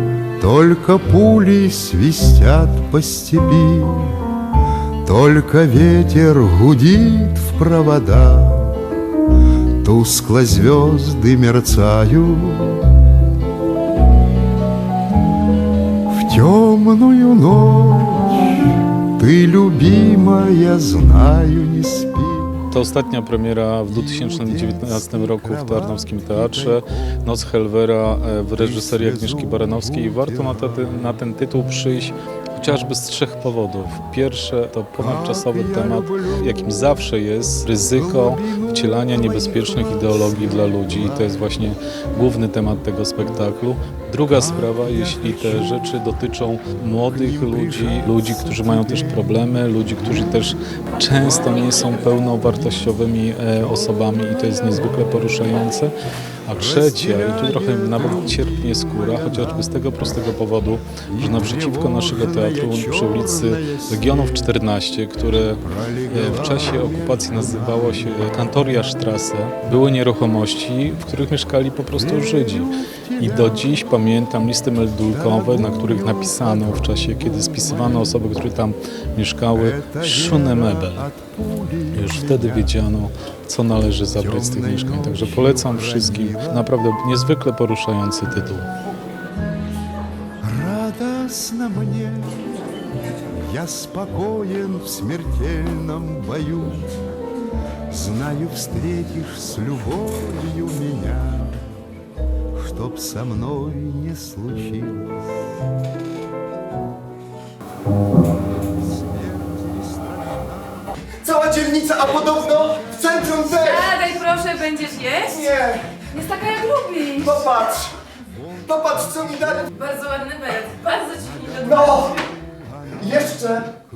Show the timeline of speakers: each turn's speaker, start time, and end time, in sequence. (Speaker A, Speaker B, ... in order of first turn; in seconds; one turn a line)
Speaker A: 0.4-4.2
Speaker A: 5.0-8.9
Speaker A: 9.8-12.9
Speaker A: 16.1-22.6
Speaker B: 22.7-55.9
Speaker A: 23.9-26.8
Speaker A: 28.6-30.8
Speaker A: 35.0-36.8
Speaker A: 37.9-41.3
Speaker A: 44.4-45.8
Speaker A: 46.9-49.3
Speaker A: 51.2-51.6
Speaker B: 56.5-81.1
Speaker A: 56.6-59.7
Speaker A: 61.1-64.4
Speaker A: 65.7-68.0
Speaker A: 72.0-73.8
Speaker A: 75.1-78.1
Speaker A: 79.5-82.8
Speaker B: 81.9-88.7
Speaker A: 84.2-86.7
Speaker A: 90.4-92.5
Speaker A: 93.2-96.9
Speaker A: 97.9-101.7
Speaker A: 102.5-105.2
Speaker A: 108.7-110.9
Speaker C: 111.2-114.3
Speaker D: 114.3-115.2
Speaker C: 115.1-116.5
Speaker D: 116.2-117.2
Speaker C: 117.1-118.0
Speaker C: 118.7-119.9
Speaker D: 119.9-122.0
Speaker A: 121.2-122.6
Speaker C: 121.5-122.2
Speaker C: 123.0-123.7